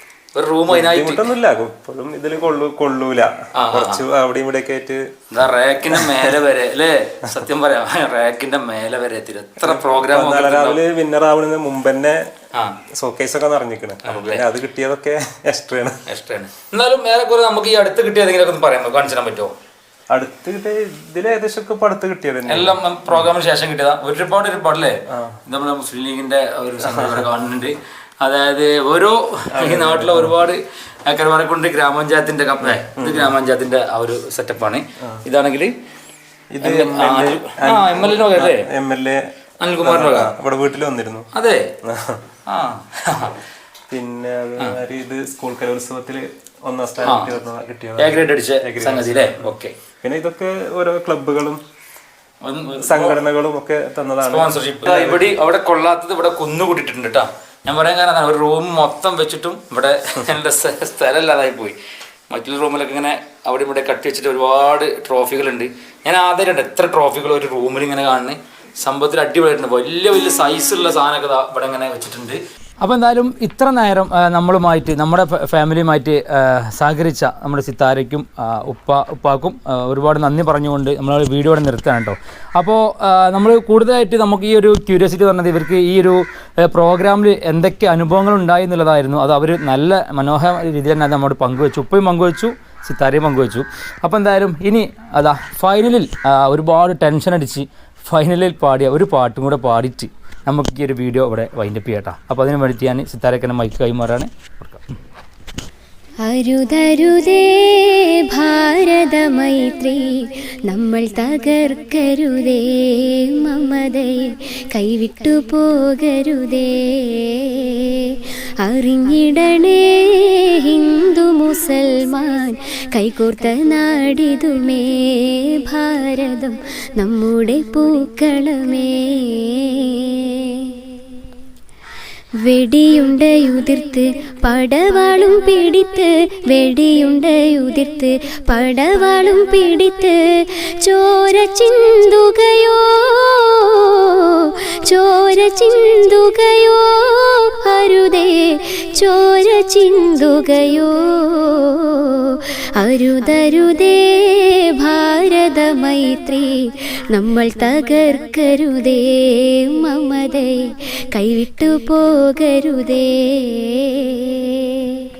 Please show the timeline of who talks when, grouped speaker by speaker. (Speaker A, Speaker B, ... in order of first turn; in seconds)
Speaker A: 0.3-1.3, 3.5-4.0, 5.3-10.8, 14.0-14.5, 16.1-19.5, 22.5-35.7, 36.6-38.7, 39.6-40.3, 41.3-41.7, 42.5-43.4, 47.0-47.4, 48.0-49.8, 52.4-53.2, 54.2-61.8, 62.3-104.9
Speaker B: 0.7-5.1, 5.9-6.3, 9.6-12.2, 12.9-15.9, 20.1-23.3, 25.1-25.4, 26.8-27.3, 29.5-30.3, 32.6-33.3, 36.5-39.2, 39.8-41.3, 41.8-42.2, 43.9-51.6, 52.8-55.3
Speaker C: 106.2-129.8, 132.4-140.2, 140.8-164.6